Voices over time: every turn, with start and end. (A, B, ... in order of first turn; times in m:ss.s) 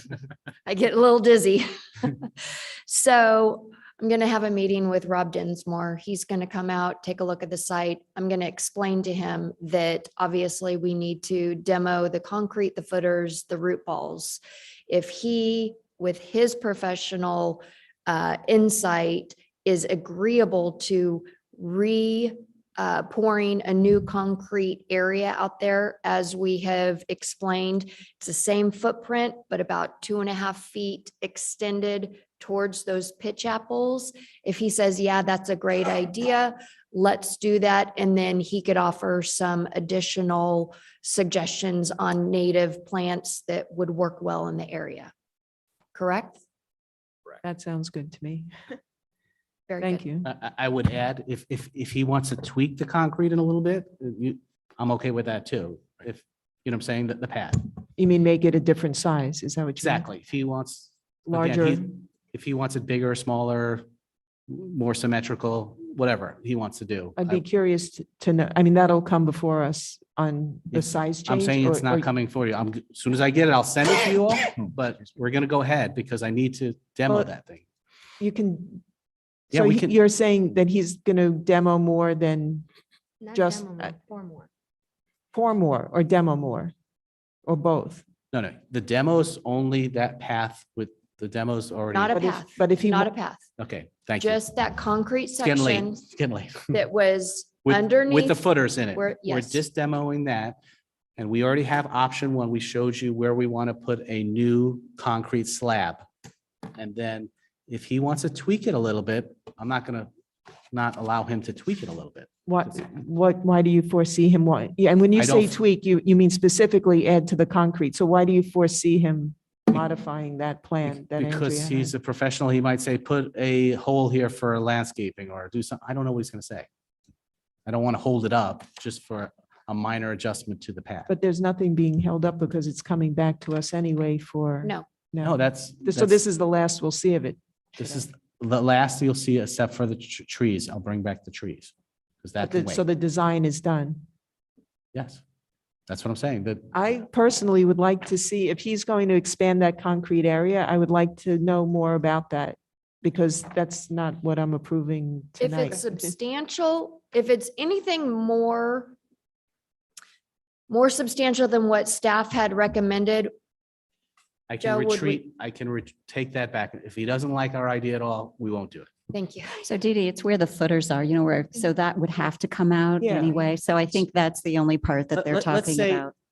0:00.6-0:45.1 A
0:45.9-0:46.4 A
0:47.4-0:48.8 B
0:49.7-0:50.0 A
0:49.8-0:50.3 B
0:50.2-0:57.7 C
0:58.0-1:00.0 B
0:59.8-1:03.8 C
1:01.2-1:01.8 B
1:04.5-1:07.4 C
1:07.2-1:12.1 B
1:10.7-1:17.6 C
1:18.2-1:18.8 B
1:19.5-1:22.7 B
1:19.5-1:19.9 C
1:23.3-1:23.9 B
1:25.3-1:26.7 B
1:27.4-1:28.0 B
1:28.3-1:32.2 C
1:31.9-1:33.4 A
1:32.1-1:33.1 B
1:33.6-1:34.4 C
1:34.2-1:36.0 A
1:35.4-1:36.8 C
1:36.7-1:39.6 A
1:37.6-1:40.6 C
1:41.2-1:46.0 C
1:46.7-1:50.1 C
1:50.7-1:52.7 C
1:52.4-2:01.9 B
1:55.2-1:55.6 C
2:00.9-2:06.7 C
2:07.6-2:11.1 C
2:11.1-2:17.9 B
2:15.2-2:16.2 C
2:17.8-2:22.8 C
2:22.4-2:24.0 B
2:24.9-2:25.2 C
2:25.9-2:26.7 C
2:26.7-2:36.1 B
2:35.4-2:39.0 A
2:40.7-2:43.3 A
2:44.5-2:48.9 C
2:44.6-2:45.2 A
2:49.1-2:49.6 A
2:49.6-2:56.1 D
2:53.0-2:53.4 B
2:55.1-2:56.0 C